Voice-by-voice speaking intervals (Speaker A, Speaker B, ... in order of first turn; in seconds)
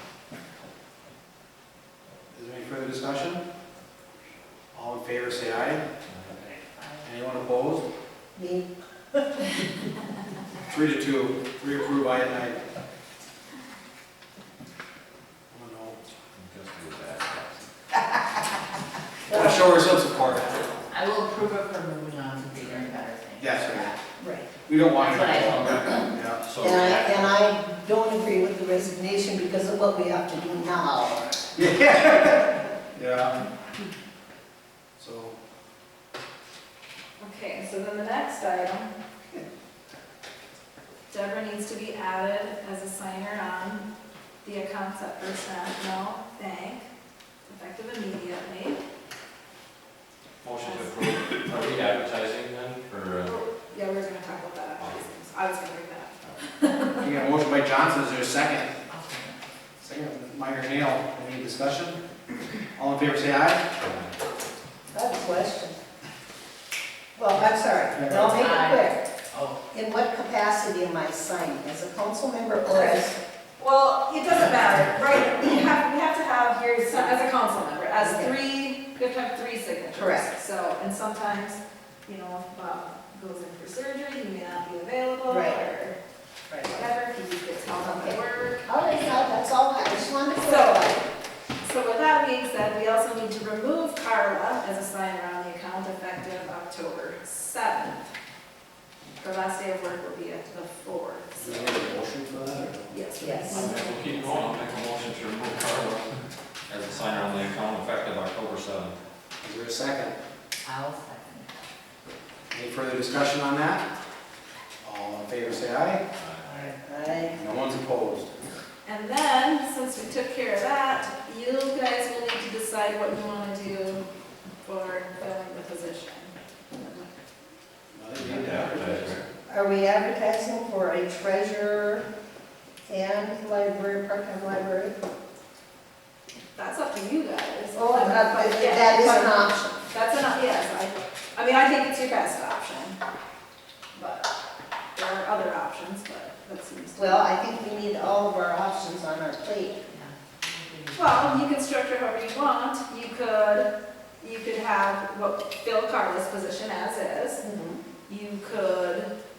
Speaker A: 2.3-3.4, 4.7-5.8, 7.0-7.8, 10.7-12.6, 15.5-16.0, 19.3-20.6, 23.4-23.9, 24.6-26.4, 31.5-33.4, 35.0-35.3, 57.0-58.7, 59.8-62.0, 62.8-63.6, 67.9-68.5, 101.4-102.9, 109.4-110.2, 112.5-113.8, 114.8-116.0, 117.3-118.3, 127.9-129.2
Speaker B: 6.0-6.5, 16.3-17.6, 25.0-27.4, 50.4-53.4, 54.8-55.0, 63.8-64.1, 103.5-106.2, 106.7-109.0, 116.1-116.5, 128.1-129.2
Speaker C: 6.8-7.0, 20.9-23.9, 25.1-25.5, 58.9-59.4, 68.4-68.8, 69.3-69.6, 110.6-111.5, 116.4-116.8, 149.9-151.3
Speaker D: 8.3-9.6, 19.3-19.8, 24.2-24.5, 26.6-31.4, 64.9-65.7, 67.1-69.0, 69.7-73.1, 78.0-78.3, 79.9-80.3, 85.3-85.6, 86.5-86.8, 87.9-91.0, 103.2-103.7, 116.8-117.3, 129.5-132.0, 132.9-134.9, 137.7-139.7, 146.9-149.8, 157.4-157.8
Speaker E: 37.2-38.9, 41.1-43.9, 44.4-46.9, 47.5-48.8, 50.6-50.9, 53.2-57.1, 72.7-73.0, 73.6-86.0, 86.7-88.7, 90.4-90.9, 91.6-98.1, 99.2-101.9, 102.9-103.9, 118.8-124.0, 124.6-127.1, 136.6-143.0, 143.9-144.3, 144.9-147.3, 150.9-157.4, 158.1-159.1